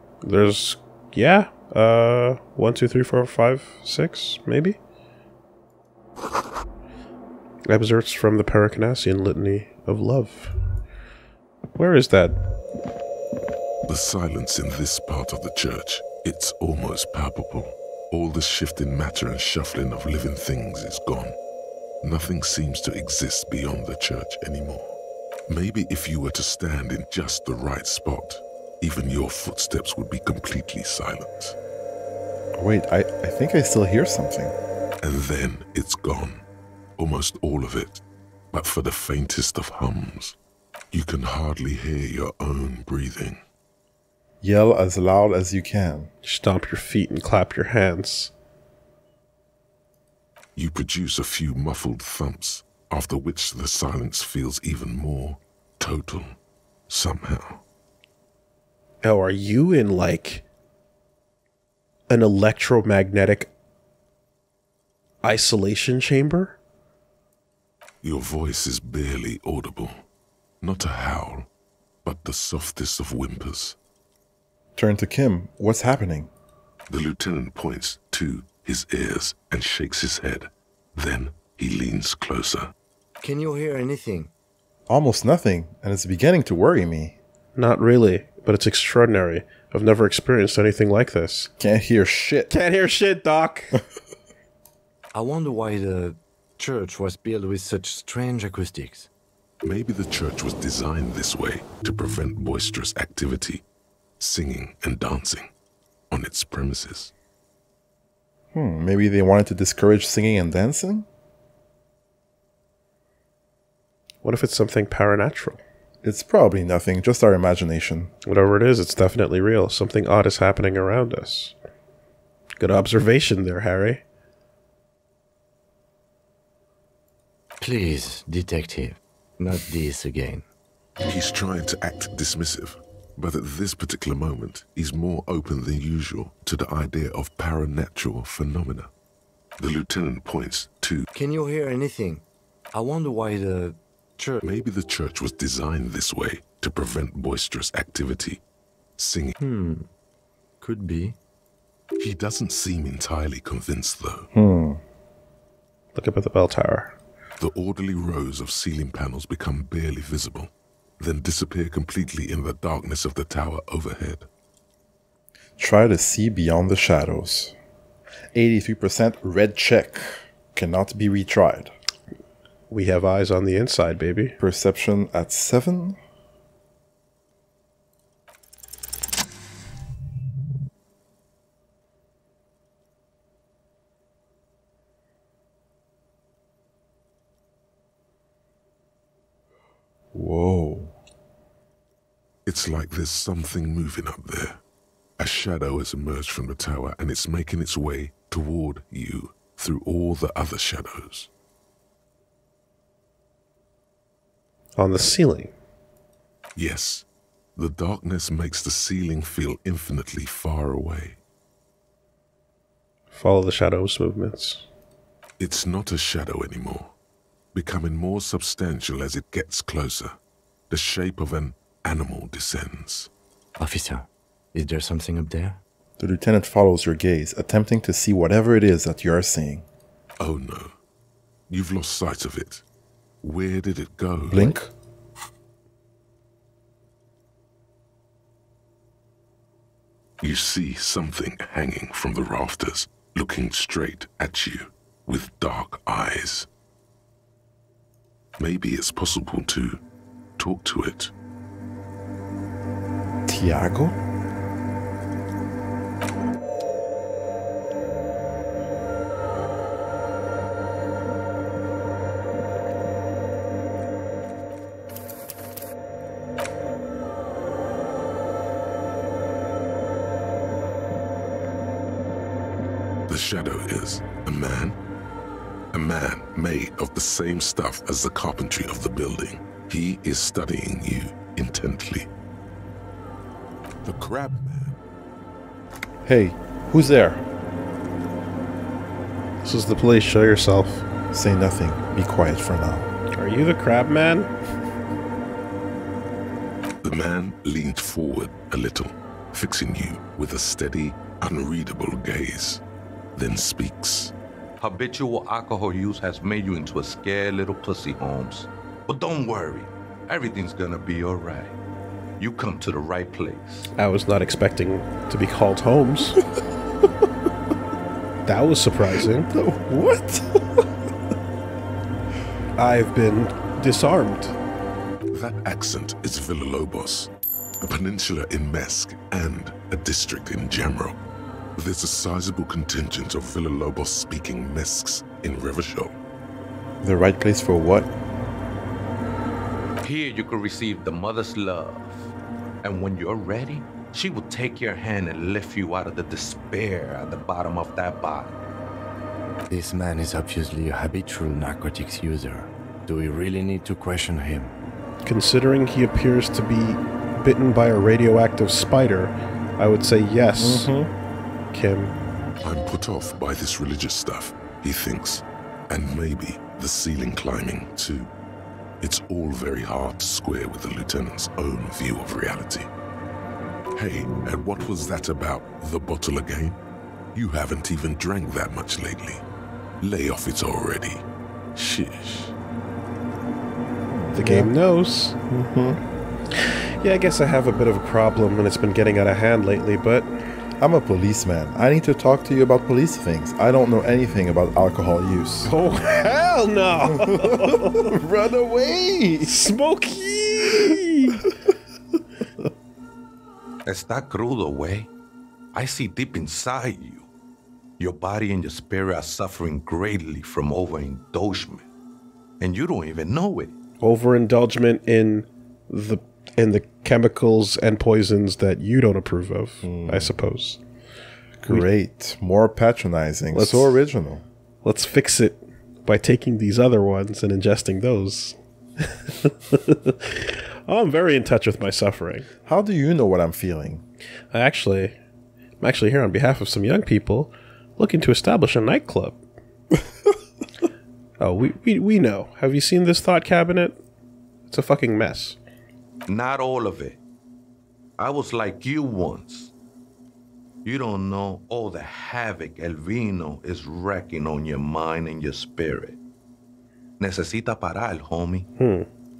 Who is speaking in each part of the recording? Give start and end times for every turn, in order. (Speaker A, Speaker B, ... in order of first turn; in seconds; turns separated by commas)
Speaker A: 0.2-4.8, Speaker A: 7.7-10.5, Speaker A: 11.8-12.4, Speaker B: 13.9-21.4, Speaker B: 22.0-25.0, Speaker B: 25.5-31.6, Speaker C: 32.6-34.5, Speaker B: 35.0-36.4, Speaker B: 37.0-38.0, Speaker B: 38.5-40.4, Speaker B: 40.9-43.4, Speaker C: 44.4-46.1, Speaker A: 46.2-48.3, Speaker B: 50.6-56.4, Speaker B: 56.9-57.6, Speaker A: 59.0-60.5, Speaker A: 62.1-63.5, Speaker A: 65.2-66.6, Speaker B: 68.0-70.0, Speaker B: 70.6-71.5, Speaker B: 72.0-73.8, Speaker C: 74.8-76.3, Speaker B: 76.9-82.7, Speaker D: 83.2-84.3, Speaker C: 84.9-87.2, Speaker A: 87.5-91.5, Speaker C: 91.6-92.5, Speaker A: 92.5-93.8, Speaker D: 95.1-99.1, Speaker B: 99.6-103.6, Speaker B: 104.2-105.5, Speaker B: 106.1-107.1, Speaker C: 108.5-111.1, Speaker A: 114.2-115.6, Speaker C: 116.0-118.1, Speaker A: 118.2-121.6, Speaker A: 122.6-124.0, Speaker D: 127.6-130.5, Speaker B: 131.1-138.9, Speaker B: 139.6-141.1, Speaker D: 141.1-144.4, Speaker B: 144.4-148.4, Speaker B: 149.0-149.3, Speaker D: 149.4-149.9, Speaker D: 150.6-151.2, Speaker B: 152.0-154.3, Speaker C: 154.3-154.8, Speaker A: 155.9-156.9, Speaker B: 157.4-164.3, Speaker C: 165.6-167.6, Speaker C: 168.3-171.7, Speaker A: 172.7-174.4, Speaker C: 174.4-176.0, Speaker C: 190.1-190.9, Speaker B: 192.5-194.6, Speaker B: 195.2-201.3, Speaker A: 204.8-205.5, Speaker B: 206.6-211.2, Speaker A: 213.1-214.7, Speaker B: 215.4-216.9, Speaker B: 217.5-220.2, Speaker B: 220.7-223.1, Speaker D: 223.6-225.6, Speaker C: 226.0-229.7, Speaker B: 230.2-230.7, Speaker B: 231.5-232.6, Speaker B: 233.2-234.6, Speaker C: 234.3-234.7, Speaker B: 240.2-246.5, Speaker B: 248.4-249.8, Speaker B: 250.4-251.1, Speaker C: 253.3-254.0, Speaker B: 273.1-274.8, Speaker B: 275.7-282.1, Speaker B: 283.8-284.8, Speaker C: 286.1-287.2, Speaker A: 289.4-290.8, Speaker C: 291.1-292.9, Speaker A: 293.2-294.3, Speaker B: 296.8-302.6, Speaker B: 303.2-304.1, Speaker E: 304.6-311.5, Speaker E: 312.2-313.7, Speaker A: 313.8-316.2, Speaker A: 318.3-319.3, Speaker C: 319.3-320.6, Speaker A: 322.6-324.4, Speaker B: 325.1-331.0, Speaker B: 331.6-335.9, Speaker C: 336.8-337.9, Speaker E: 339.8-342.1, Speaker E: 342.6-348.3, Speaker D: 349.5-354.5, Speaker A: 355.0-360.7, Speaker C: 360.4-360.9, Speaker A: 361.5-361.9, Speaker B: 362.4-368.1, Speaker B: 368.8-372.7, Speaker B: 373.8-376.6, Speaker B: 377.1-379.2, Speaker B: 379.8-381.0, Speaker B: 381.6-382.3, Speaker C: 383.9-384.5, Speaker A: 384.1-385.2, Speaker C: 385.3-385.8, Speaker A: 386.3-390.1, Speaker C: 390.6-395.5, Speaker A: 395.5-397.9, Speaker C: 396.9-399.5, Speaker A: 399.2-401.3, Speaker E: 403.6-404.9, Speaker E: 405.5-407.1, Speaker E: 407.8-411.6, Speaker E: 412.4-413.6, Speaker A: 413.8-420.6, Speaker C: 419.6-420.1, Speaker C: 421.4-424.2, Speaker A: 423.3-423.8, Speaker A: 424.6-432.3, Speaker C: 432.5-433.8, Speaker A: 434.3-435.0, Speaker A: 435.6-439.2, Speaker A: 441.2-443.8, Speaker A: 444.5-445.4, Speaker E: 446.1-447.0, Speaker E: 448.0-449.5, Speaker E: 450.6-456.0, Speaker E: 457.0-458.5, Speaker A: 458.6-458.9